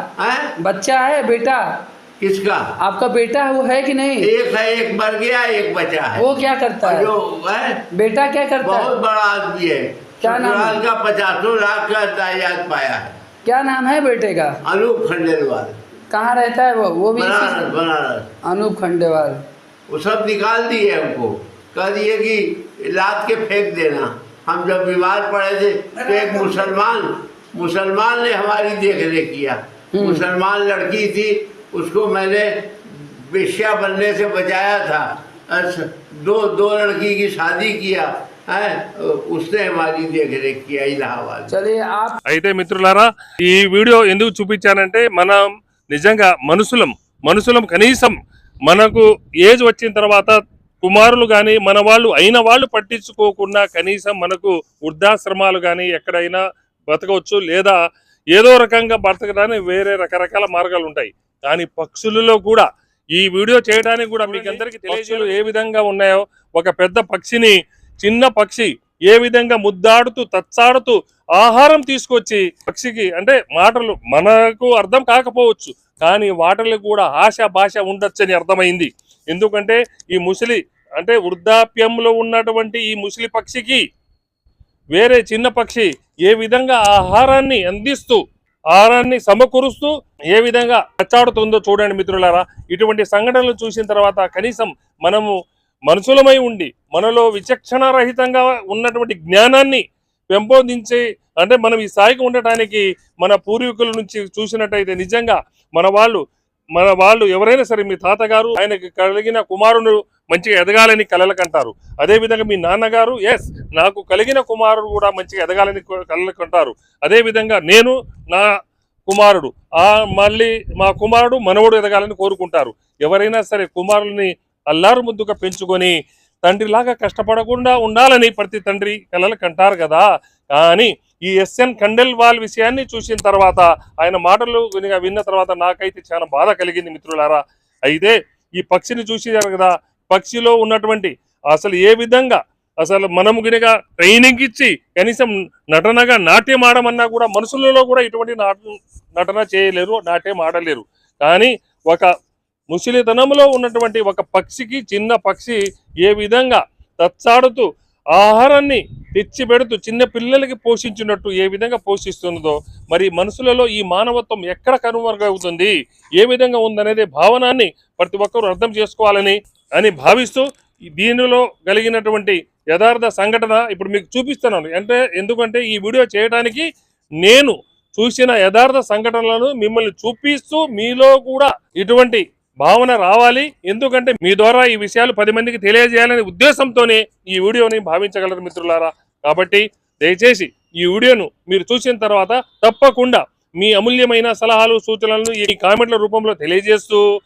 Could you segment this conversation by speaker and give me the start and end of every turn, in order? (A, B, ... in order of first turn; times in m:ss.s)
0:00.2-0:00.5 A
0:00.6-0:01.6 B
0:02.2-0:02.6 A
0:02.8-0:04.3 B
0:04.2-0:06.3 A
0:06.2-0:07.1 B
0:06.8-0:07.8 A
0:07.9-0:08.9 B
0:08.6-0:13.2 A
0:10.2-0:10.8 B
0:13.4-0:14.5 B
0:14.6-0:15.8 A
0:16.1-0:17.6 B
0:17.2-0:18.3 A
0:18.5-0:19.4 B
0:19.9-0:41.6 A
0:26.0-0:26.7 B
0:30.0-0:30.2 B
0:41.5-0:42.2 B
0:42.2-0:45.4 C
0:45.9-0:48.2 C
0:48.7-0:57.8 C
0:58.3-1:02.6 C
1:03.2-1:23.8 C
1:25.0-1:28.2 C
1:28.7-1:35.3 C
1:35.9-1:46.2 C
1:46.8-1:58.5 C
1:59.1-2:28.6 C
2:29.2-2:32.1 C
2:32.7-2:50.4 C
2:51.0-2:56.6 C
2:57.2-3:17.0 C